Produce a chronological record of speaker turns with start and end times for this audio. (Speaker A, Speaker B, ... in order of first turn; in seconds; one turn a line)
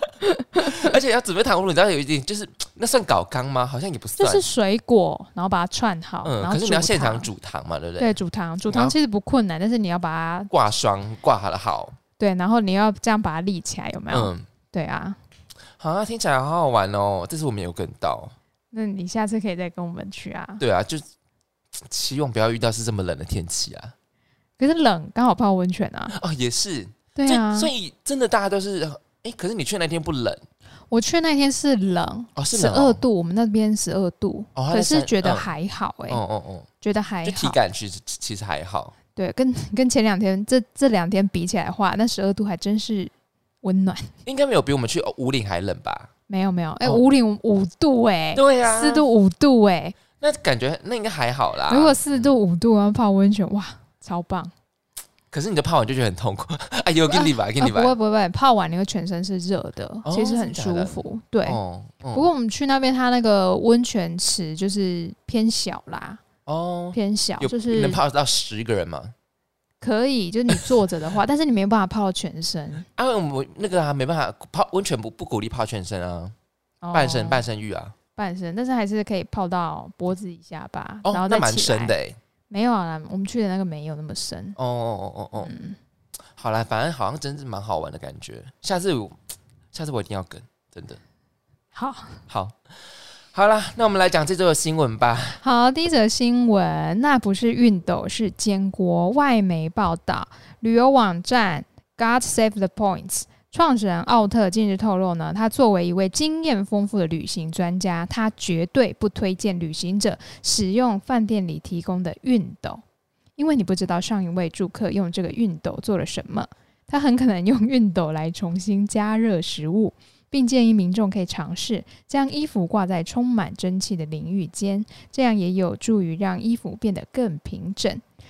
Speaker A: 0.2-0.9
Speaker B: 0.6-4.5
Speaker A: 4.2-7.3
Speaker B: 6.2-8.1
Speaker A: 8.0-10.5
Speaker B: 8.7-8.9
Speaker B: 10.5-12.0
Speaker A: 12.2-15.2
Speaker B: 14.1-14.5
Speaker B: 15.8-18.3
Speaker A: 18.7-20.6
Speaker B: 20.6-21.1
Speaker B: 21.9-23.9
Speaker A: 24.6-26.1
Speaker B: 26.1-30.4
Speaker A: 27.1-27.7
Speaker A: 30.9-36.2
Speaker B: 32.4-33.0
Speaker B: 34.6-35.5
Speaker B: 36.1-36.7
Speaker A: 36.8-37.6
Speaker B: 37.2-39.0
Speaker A: 39.1-43.1
Speaker A: 43.6-44.1
Speaker B: 44.2-46.1
Speaker A: 46.3-50.0
Speaker B: 48.4-49.1
Speaker B: 50.2-52.3
Speaker A: 51.7-54.5
Speaker B: 55.3-58.0
Speaker A: 57.1-61.6
Speaker B: 60.1-60.9
Speaker B: 61.5-62.3
Speaker A: 62.1-66.2
Speaker B: 66.5-69.1
Speaker A: 66.9-68.0
Speaker A: 69.8-72.9
Speaker B: 73.0-76.3
Speaker A: 76.8-77.4
Speaker B: 76.9-77.9
Speaker A: 78.2-81.9
Speaker B: 81.0-82.2
Speaker A: 82.5-84.6
Speaker B: 84.6-85.5
Speaker A: 85.4-85.8
Speaker B: 86.4-89.2
Speaker B: 89.7-91.0
Speaker A: 91.8-92.2
Speaker B: 92.3-92.6
Speaker B: 93.3-95.4
Speaker A: 95.4-112.8
Speaker A: 113.4-128.0